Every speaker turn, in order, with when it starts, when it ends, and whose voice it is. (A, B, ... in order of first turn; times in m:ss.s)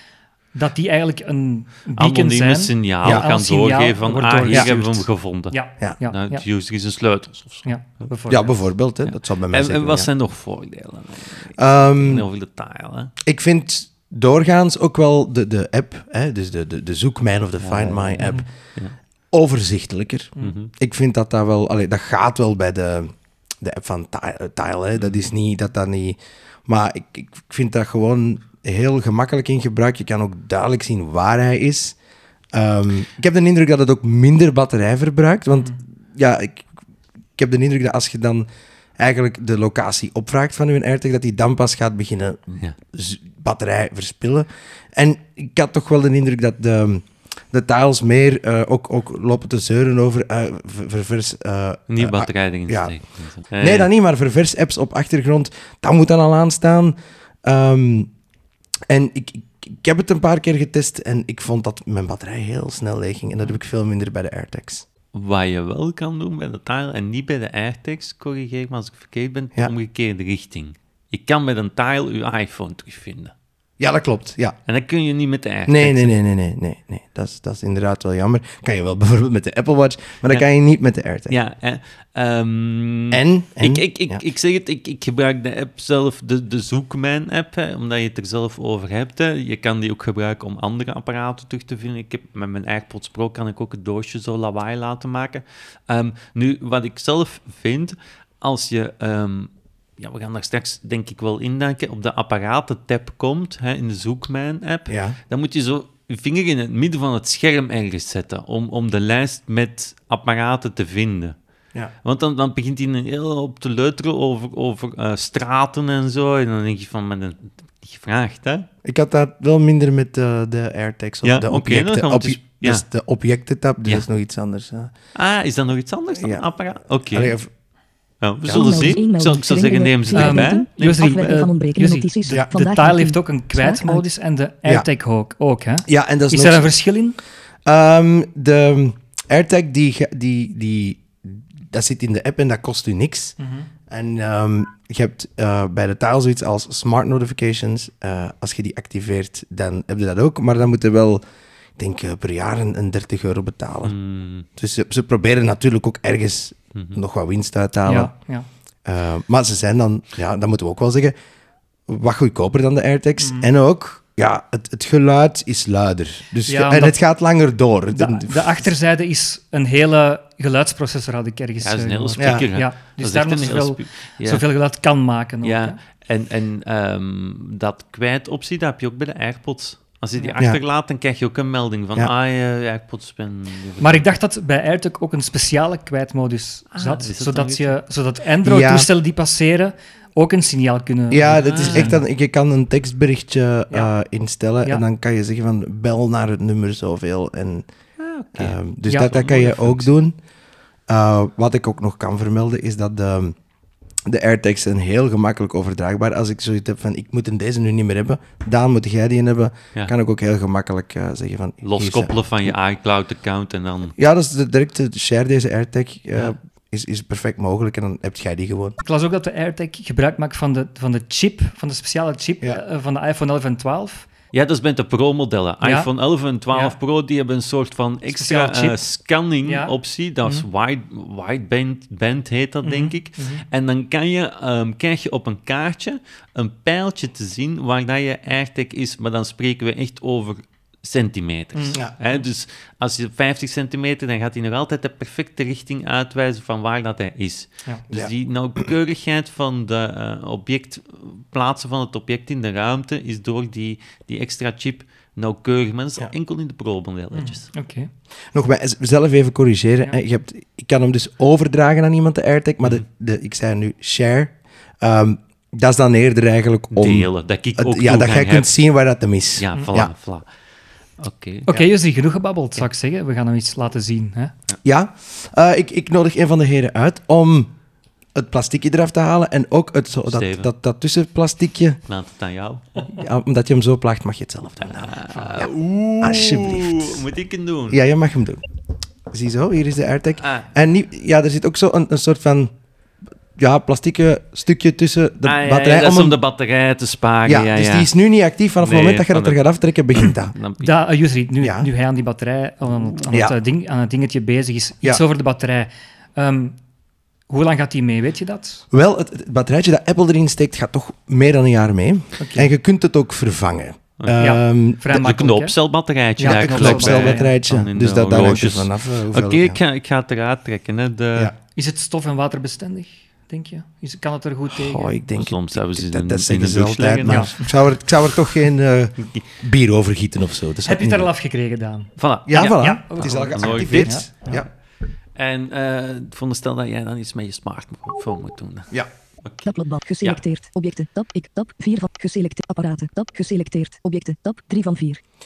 0:00.5-0:06.4 A
0:02.0-0:05.6 B
0:06.1-0:07.7 B
0:07.6-0:08.6 A
0:08.3-0:10.1 C
0:09.0-0:13.1 B
0:11.6-0:12.3 C
0:13.2-0:18.5 C
0:17.6-0:18.9 B
0:19.3-0:32.0 C
0:20.4-0:20.7 B
0:32.5-0:36.6 C
0:37.4-0:38.5 C
0:39.0-0:53.0 C
0:51.9-0:53.9 B
0:53.6-0:58.1 C
0:58.9-1:04.8 C
1:05.1-1:13.3 B
1:13.8-1:14.6 C
1:14.6-1:16.1 B
1:15.7-1:21.4 C
1:21.3-1:51.4 B
1:23.1-1:24.2 C
1:44.9-1:45.2 C
1:52.0-1:58.7 B
1:58.8-2:04.9 C
2:01.2-2:02.8 B
2:05.1-2:07.4 B
2:06.1-2:06.5 C
2:07.0-2:07.5 C
2:08.2-2:11.4 B
2:08.4-2:09.0 C
2:08.5-2:14.0 D
2:10.1-2:17.2 A
2:15.8-2:16.7 C
2:17.6-2:23.4 C
2:23.4-2:23.7 A
2:23.9-2:31.2 C
2:31.8-2:34.0 C
2:33.8-2:34.4 B
2:34.6-2:38.1 C
2:37.8-2:38.5 A
2:38.8-2:41.1 C
2:41.9-2:48.7 C
2:43.2-2:43.5 A
2:46.5-2:47.0 A
2:47.9-2:55.8 A
2:51.6-2:54.5 B
2:52.2-2:52.5 C
2:55.4-3:04.2 B
3:03.8-3:12.0 A
3:06.7-3:07.8 B
3:08.4-3:08.9 C
3:11.1-3:17.6 C
3:11.4-3:12.0 B
3:18.0-3:18.6 B
3:18.3-3:20.1 C
3:18.9-3:19.7 A
3:19.4-3:19.7 B
3:20.9-3:23.3 C
3:24.0-3:32.5 C
3:31.6-3:33.9 B
3:34.0-3:38.8 C
3:38.8-3:44.1 A
3:44.3-4:17.5 B
3:45.6-3:45.9 A
3:48.1-3:48.8 A
3:49.4-3:49.7 A
3:52.6-3:53.4 A
4:01.5-4:01.8 A
4:17.1-4:17.9 A
4:18.3-4:29.9 C
4:26.7-4:28.6 B
4:29.4-4:30.3 B
4:31.0-4:31.7 B
4:31.5-4:34.3 A
4:34.6-4:37.5 C
4:38.1-4:41.8 C
4:40.0-4:40.5 B
4:41.9-4:42.8 B
4:42.9-4:45.5 C
4:44.6-4:47.8 B
4:45.1-4:45.5 A
4:46.0-4:47.0 C
4:47.7-4:48.4 C
4:49.1-4:52.5 C
4:50.2-4:50.5 B
4:53.4-4:56.2 C
4:55.2-4:57.9 B
4:57.2-5:00.3 C
4:58.6-5:00.8 B
5:00.6-5:06.6 A
5:01.4-5:01.7 C
5:03.1-5:03.4 C
5:07.3-5:08.6 A
5:08.7-5:15.0 C
5:12.2-5:12.5 A
5:14.2-5:15.5 A
5:14.9-5:21.3 B
5:16.2-5:17.3 A
5:16.2-5:19.6 C
5:21.5-5:24.9 A
5:24.5-5:31.1 C
5:25.1-5:27.3 B
5:27.0-5:27.5 A
5:30.6-5:34.4 A
5:32.0-5:34.4 B
5:32.3-5:34.5 C
5:35.2-5:38.7 B
5:39.2-5:40.2 B
5:39.4-5:45.0 D